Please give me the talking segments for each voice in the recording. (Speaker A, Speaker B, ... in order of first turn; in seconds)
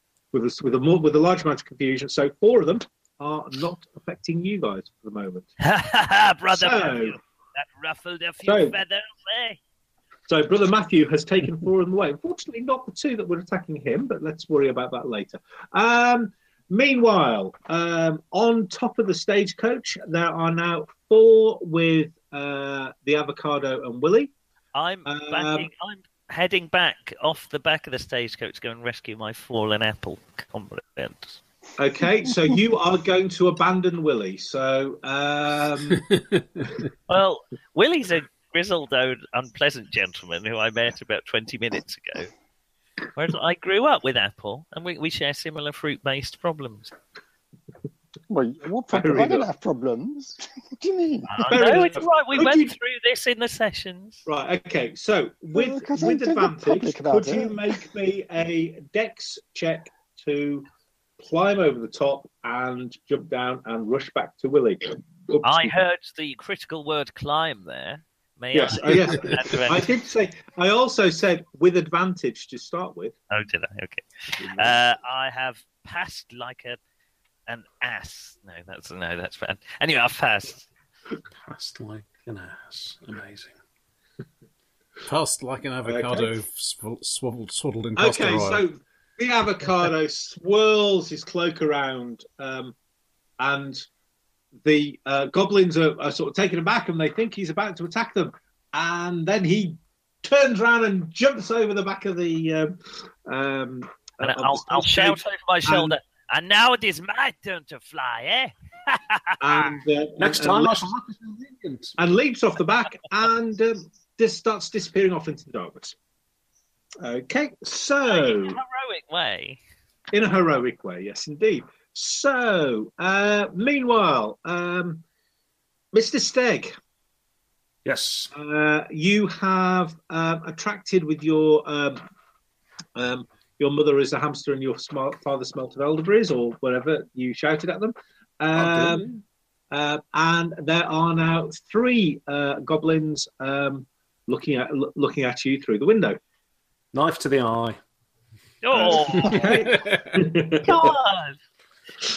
Speaker A: 0.3-5.5, 6.5-7.2, 8.4-8.8, 10.3-24.3, 25.0-25.7, 31.8-36.0, 48.9-49.5, 51.5-52.7, 54.2-60.7, 61.2-65.8, 68.5-73.2, 85.8-86.3, 88.0-92.7, 93.4-93.8, 94.6-106.0, 109.4-110.8, 112.0-116.0, 117.0-118.6, 120.1-125.0, 125.9-126.7, 128.3-132.0, 132.9-139.1, 139.7-146.2, 148.7-150.9
Speaker B: 5.6-9.6, 24.7-31.4, 37.1-42.3, 43.1-46.9, 51.3-54.2, 65.4-69.9, 73.3-76.8, 77.5-80.7, 104.2-109.8, 118.0-119.6, 148.6-149.5, 150.6-151.4
Speaker C: 35.9-36.8, 85.0-88.6, 149.4-150.0
Speaker D: 48.3-51.5, 55.5-57.7
Speaker E: 81.4-83.5, 110.2-111.9, 127.8-128.3, 138.5-139.2, 146.9-147.8